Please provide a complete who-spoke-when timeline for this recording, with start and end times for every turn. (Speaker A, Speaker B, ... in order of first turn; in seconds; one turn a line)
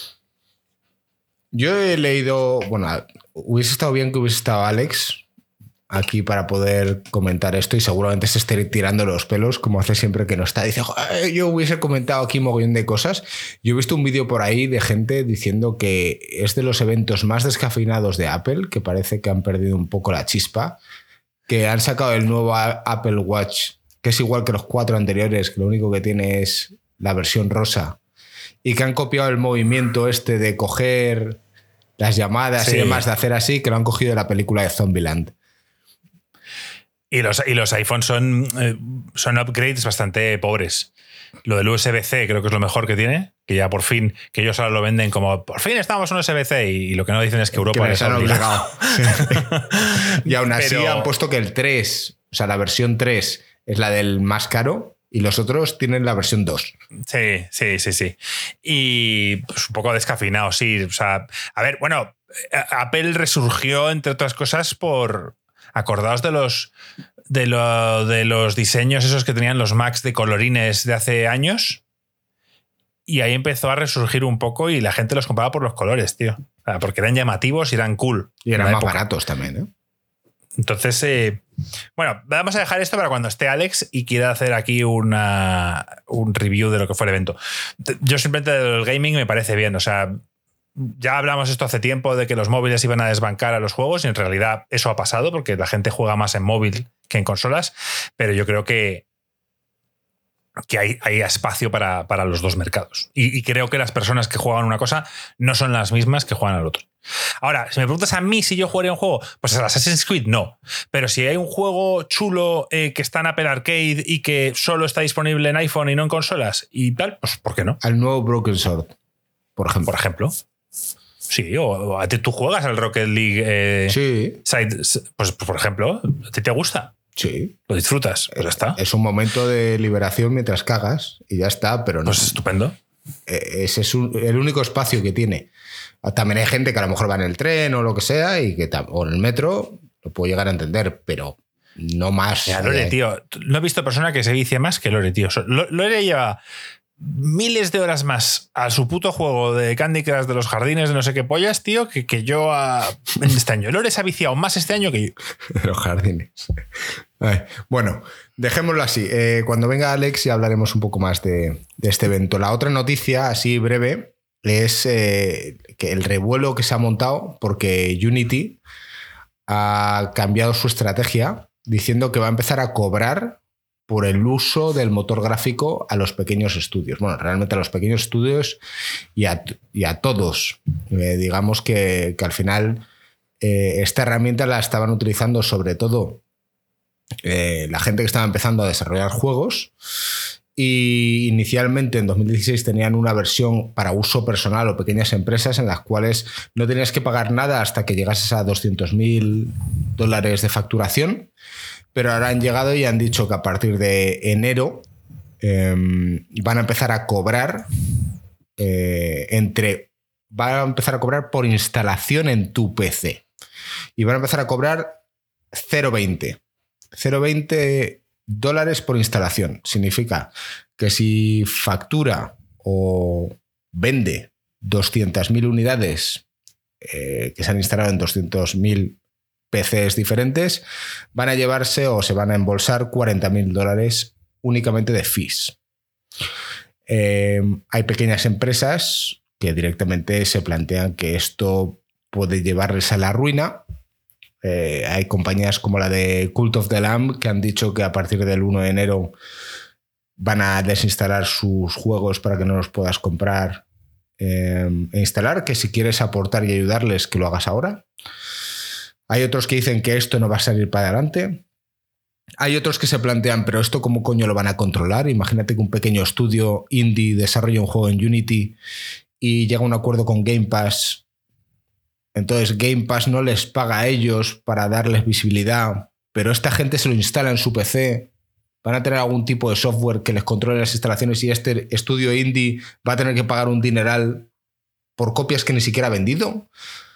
Speaker A: 1.5-5.2
Speaker A: 5.9-20.8
Speaker A: 21.5-28.0
Speaker A: 28.6-31.4
Speaker A: 32.0-35.3
Speaker B: 32.6-33.0
Speaker B: 37.1-40.9
Speaker B: 41.5-51.1
Speaker A: 47.5-56.7
Speaker B: 57.1-66.7
Speaker B: 67.3-71.8
Speaker B: 73.1-79.0
Speaker A: 78.5-79.7
Speaker B: 80.6-81.4
Speaker B: 82.0-90.2
Speaker B: 90.8-99.0
Speaker B: 100.7-106.9
Speaker B: 107.4-117.8
Speaker A: 117.8-119.0
Speaker A: 119.6-119.9
Speaker B: 119.9-120.3
Speaker B: 121.3-126.9
Speaker A: 123.9-124.4
Speaker A: 127.2-127.5
Speaker B: 127.7-128.8
Speaker A: 128.4-132.4
Speaker B: 132.1-132.7
Speaker A: 133.3-135.5
Speaker A: 136.0-142.9
Speaker B: 142.5-146.4
Speaker B: 147.0-155.1
Speaker A: 155.5-156.5
Speaker A: 157.2-168.6
Speaker A: 169.5-178.6
Speaker A: 179.1-182.8
Speaker A: 183.4-186.2
Speaker A: 187.2-189.7
Speaker A: 190.6-201.3
Speaker A: 201.9-204.9
Speaker A: 205.4-207.7
Speaker A: 208.6-213.2
Speaker A: 214.0-215.0
Speaker A: 215.5-216.4
Speaker A: 216.9-226.2
Speaker A: 226.8-229.0
Speaker A: 229.5-230.6
Speaker A: 231.1-235.6
Speaker A: 236.9-243.6
Speaker A: 244.4-249.1
Speaker A: 250.2-253.6
Speaker A: 254.2-257.9
Speaker A: 259.1-261.4
Speaker A: 262.4-268.6
Speaker A: 269.2-271.0
Speaker A: 272.1-278.1
Speaker A: 278.6-284.3
Speaker A: 285.0-286.5